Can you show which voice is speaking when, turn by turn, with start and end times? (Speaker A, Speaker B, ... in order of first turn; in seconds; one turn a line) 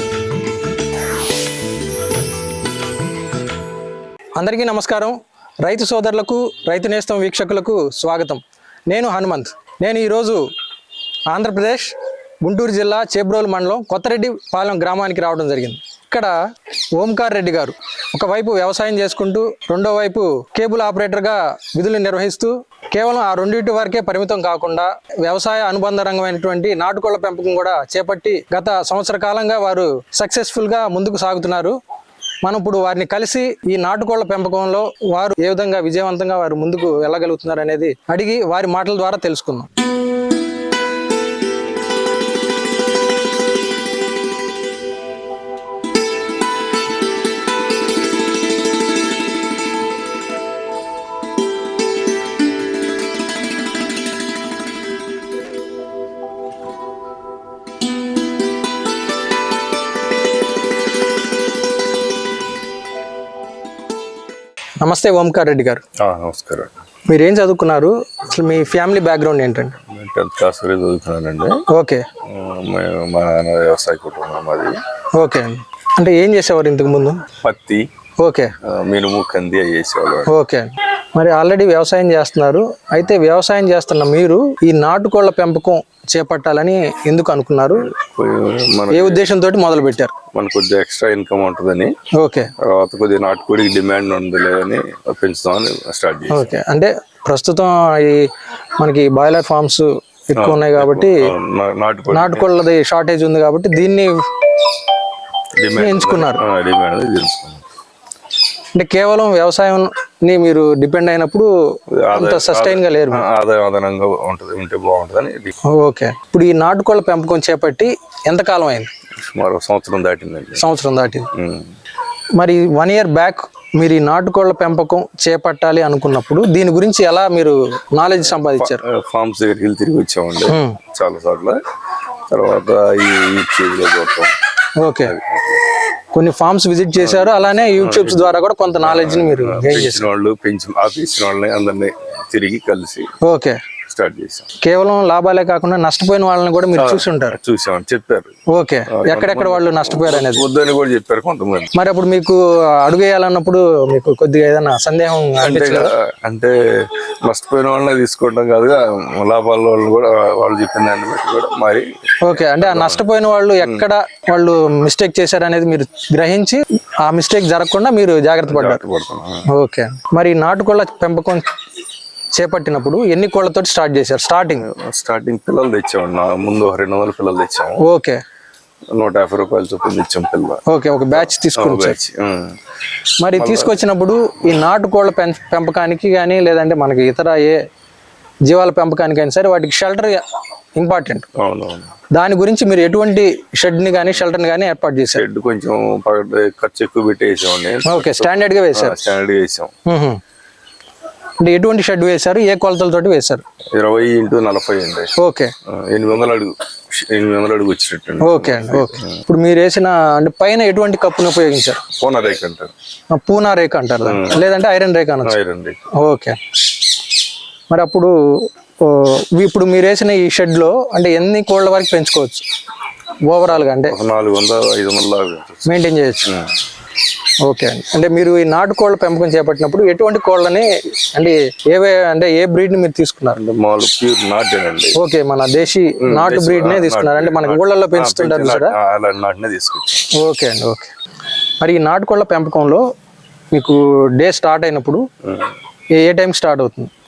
Speaker A: 4.4-10.4
Speaker A: 11.3-16.3
Speaker A: 17.0-31.8
Speaker A: 32.4-39.7
Speaker A: 64.8-65.8
Speaker B: 66.0-66.8
Speaker A: 67.1-69.8
Speaker B: 69.9-71.6
Speaker A: 71.7-72.0
Speaker B: 72.2-74.8
Speaker A: 75.2-77.2
Speaker B: 77.4-77.8
Speaker A: 78.2-78.5
Speaker B: 78.6-80.3
Speaker A: 80.3-87.9
Speaker B: 87.8-89.3
Speaker A: 88.9-90.1
Speaker B: 90.3-91.9
Speaker A: 92.2-92.5
Speaker B: 92.6-96.5
Speaker A: 96.3-98.2
Speaker A: 98.8-101.3
Speaker B: 100.3-102.5
Speaker A: 102.1-104.1
Speaker B: 105.6-107.6
Speaker A: 105.7-106.4
Speaker A: 108.8-111.5
Speaker B: 111.9-115.5
Speaker A: 112.1-113.2
Speaker A: 115.8-118.9
Speaker B: 119.2-120.6
Speaker A: 120.6-121.3
Speaker B: 121.3-121.7
Speaker A: 122.4-128.8
Speaker B: 128.3-131.6
Speaker A: 130.5-130.8
Speaker B: 132.3-134.3
Speaker A: 134.8-135.1
Speaker B: 135.0-135.6
Speaker A: 136.1-140.1
Speaker B: 137.0-143.1
Speaker A: 143.2-143.6
Speaker B: 143.9-144.5
Speaker A: 144.6-147.4
Speaker B: 146.8-148.3
Speaker A: 148.5-150.4
Speaker B: 148.9-151.7
Speaker A: 151.7-155.9
Speaker B: 155.4-163.0
Speaker A: 162.3-168.8
Speaker B: 168.5-169.4
Speaker A: 169.5-171.5
Speaker A: 172.3-174.7
Speaker B: 174.6-177.8
Speaker A: 177.8-178.2
Speaker B: 178.9-180.6
Speaker A: 180.7-182.0
Speaker B: 181.1-182.6
Speaker A: 183.2-187.6
Speaker B: 183.3-183.8
Speaker A: 188.5-190.2
Speaker A: 190.8-191.2
Speaker B: 191.4-191.9
Speaker A: 192.2-195.2
Speaker B: 195.1-199.7
Speaker A: 197.8-198.9
Speaker A: 199.9-200.2
Speaker A: 201.4-203.4
Speaker B: 203.7-205.1
Speaker A: 205.2-205.5
Speaker B: 205.7-209.2
Speaker A: 208.2-211.8
Speaker B: 212.0-212.7
Speaker A: 213.1-215.4
Speaker B: 214.0-214.4
Speaker B: 215.2-215.8
Speaker A: 216.0-216.4
Speaker A: 217.7-222.4
Speaker A: 223.3-224.0
Speaker B: 223.5-226.5
Speaker A: 225.7-226.3
Speaker A: 227.4-233.4
Speaker B: 233.3-235.0
Speaker A: 234.9-238.7
Speaker B: 236.0-240.1
Speaker A: 240.2-240.9
Speaker A: 241.6-242.8
Speaker A: 243.5-245.0
Speaker B: 245.2-245.5
Speaker A: 246.0-246.9